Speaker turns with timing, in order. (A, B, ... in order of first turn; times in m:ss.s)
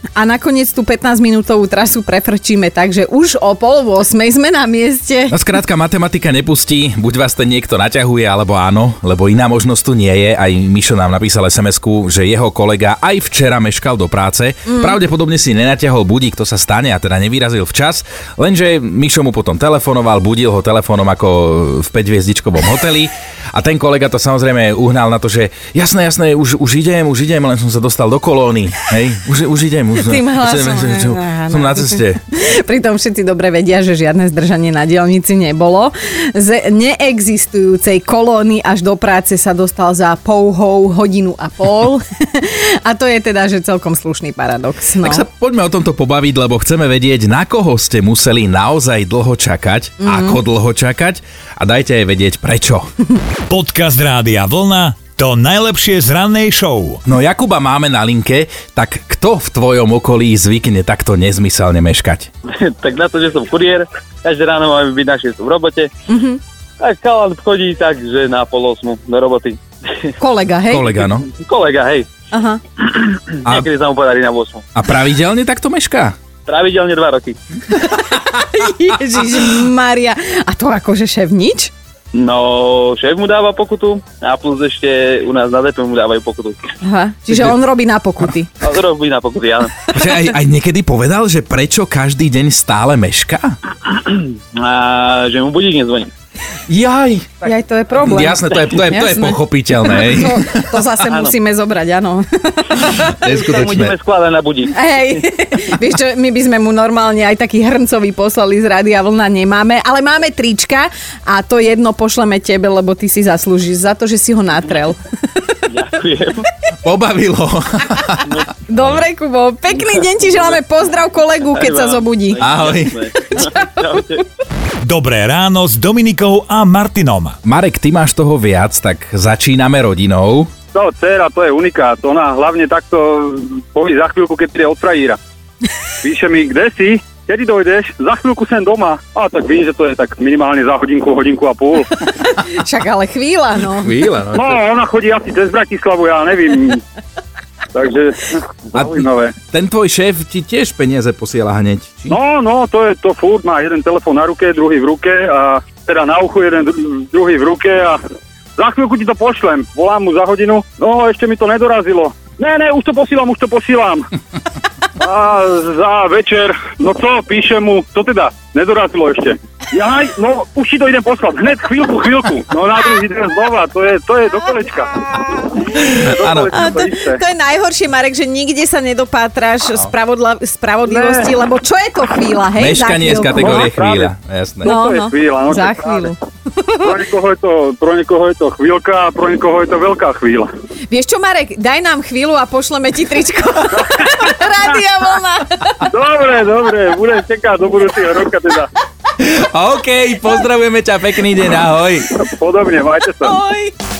0:00.2-0:05.4 A
0:05.3-0:32.2 B
0:14.7-0:14.9 A
0:30.0-0:45.2 A
0:45.0-0:52.9 B
0:50.0-0:50.4 A
0:53.5-0:57.0 C
0:57.0-1:02.3 B
1:02.5-1:05.9 D
1:06.1-1:06.4 A
1:06.8-1:10.1 D
1:10.2-1:10.9 A
1:10.7-1:11.3 B
1:11.3-1:12.1 D
1:12.3-1:12.6 A
1:12.8-1:14.6 D
1:14.8-1:16.2 B
1:16.5-1:17.4 D
1:17.7-1:21.7 A
1:22.1-1:26.6 D
1:26.8-1:28.5 A
1:28.6-1:29.9 D
1:29.9-1:33.6 B
1:33.8-1:36.1 D
1:36.7-1:37.4 B
1:37.4-1:43.1 A
1:38.0-1:40.8 B
1:42.9-1:44.0 B
1:43.2-1:45.2 D
1:44.7-1:55.6 A
1:55.7-1:56.5 D
1:56.8-1:58.3 B
1:58.2-1:58.6 D
1:58.7-2:02.4 A
2:00.2-2:00.6 D
2:01.4-2:04.2 D
2:02.4-2:03.0 B
2:04.8-2:07.4 C
2:07.4-2:10.5 B
2:10.7-2:15.2 E
2:16.0-2:22.0 E
2:22.2-2:23.9 A
2:23.8-2:24.6 B
2:24.3-2:26.8 E
2:27.7-2:29.3 E
2:28.7-2:32.1 B
2:32.1-2:38.0 E
2:38.6-2:44.1 E
2:45.0-2:55.1 E
2:55.7-2:56.5 B
2:55.8-2:57.2 E
2:56.5-3:03.7 A
3:00.8-3:01.3 E
3:02.6-3:04.8 B
3:03.4-3:04.1 E
3:04.6-3:06.1 E
3:04.6-3:06.9 A
3:06.8-3:10.5 E
3:10.9-3:15.8 A
3:15.9-3:18.7 E
3:19.2-3:22.1 B
3:22.2-3:23.4 E
3:23.2-3:23.7 A